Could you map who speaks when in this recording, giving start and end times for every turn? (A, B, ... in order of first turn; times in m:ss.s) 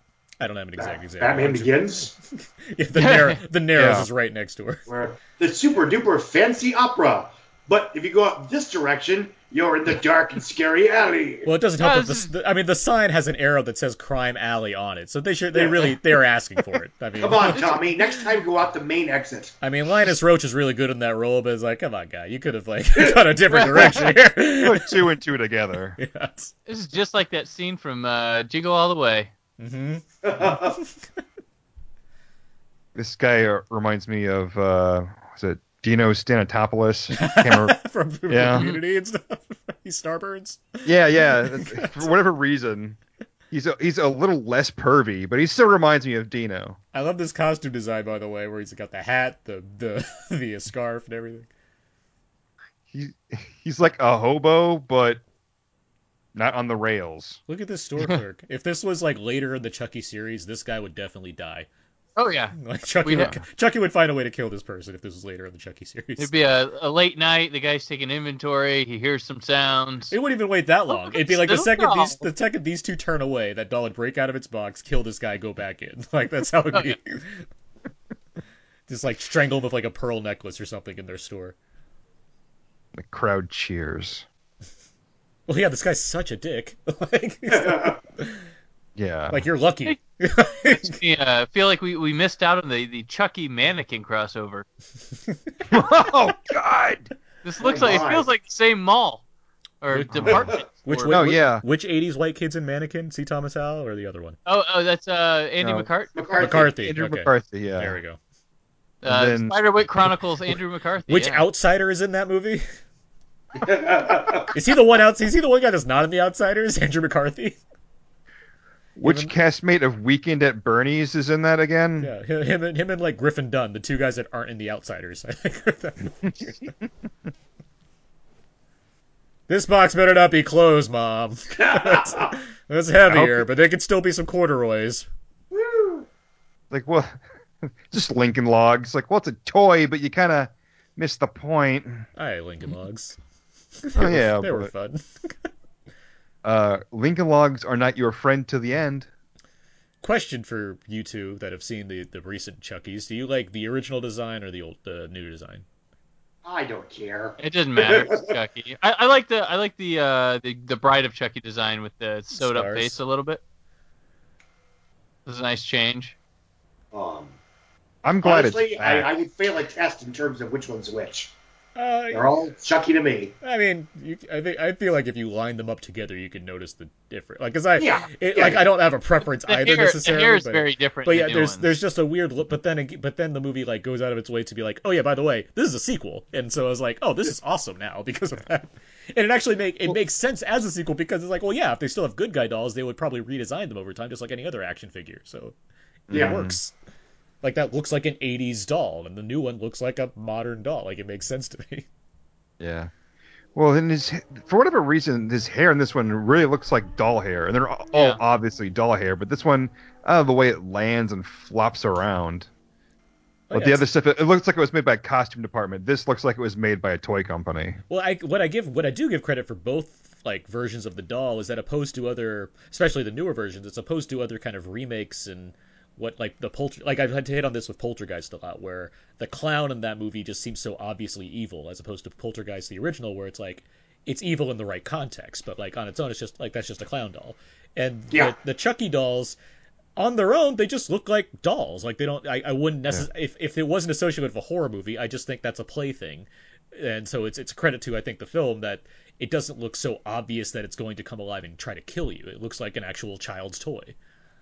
0:00.4-0:04.9 A
0:00.8-0:02.1 B
0:02.9-0:03.4 C
0:03.7-0:04.1 D
0:04.9-0:11.5 B
0:11.4-0:17.9 A
0:11.8-0:12.3 C
0:15.5-0:16.0 B
0:17.2-0:19.6 B
0:19.6-0:25.0 A
0:23.5-0:24.0 C
0:24.6-0:26.0 D
0:26.0-0:26.5 A
0:26.7-0:29.3 C
0:29.6-0:30.9 A
0:30.2-0:30.8 B
0:32.9-0:37.8 D
0:37.1-0:42.1 A
0:38.3-0:38.7 D
0:38.5-0:38.8 C
0:40.8-0:43.0 D
0:43.5-0:46.8 D
0:46.9-0:51.5 A
0:52.9-0:55.2 D
0:56.3-0:57.4 D
0:57.5-1:01.7 A
1:02.2-1:03.3 C
1:02.6-1:06.3 A
1:06.2-1:10.1 C
1:10.1-1:17.4 A
1:10.9-1:12.2 C
1:18.9-1:21.5 A
1:23.0-1:24.2 D
1:25.5-1:28.4 A
1:27.5-1:28.0 B
1:29.0-1:29.4 D
1:29.3-1:31.0 A
1:30.7-1:34.6 C
1:35.7-1:37.1 D
1:37.4-1:39.2 C
1:37.6-1:38.3 B
1:39.8-1:41.2 C
1:39.9-1:44.4 A
1:40.3-1:40.6 B
1:41.1-1:41.6 D
1:44.4-1:46.2 C
1:45.6-1:45.9 D
1:46.2-1:46.7 B
1:46.4-1:48.2 A
1:46.5-1:48.0 D
1:49.0-1:51.4 C
1:49.0-1:49.6 D
1:51.1-1:52.6 A
1:53.6-1:54.5 B
1:54.5-1:57.6 A
1:59.0-2:02.1 D
1:59.0-1:59.3 A
2:02.0-2:06.7 A
2:09.5-2:15.1 A
2:11.6-2:12.3 B
2:13.0-2:13.4 D
2:15.5-2:16.0 B
2:16.7-2:22.0 D
2:22.2-2:23.2 A
2:23.8-2:25.5 A
2:24.0-2:24.7 D
2:26.4-2:29.1 D
2:30.0-2:35.6 A
2:36.4-2:38.4 B
2:37.4-2:43.4 C
2:42.3-2:43.0 A
2:45.2-2:46.1 C
2:46.9-2:47.3 B
2:48.0-2:49.1 D
2:48.2-2:51.3 B
2:51.8-2:52.3 A
2:52.1-2:53.3 B
2:53.4-3:15.6 A
2:57.8-2:58.6 B
2:59.4-3:01.7 C
3:16.1-3:16.6 D
3:16.1-3:16.7 A
3:16.1-3:16.4 B
3:17.4-3:21.9 A
3:22.6-3:22.9 D
3:23.5-3:32.5 D
3:27.9-3:28.2 C
3:33.5-3:33.9 A
3:33.5-3:37.8 D
3:37.9-3:59.4 A
4:00.0-4:13.9 A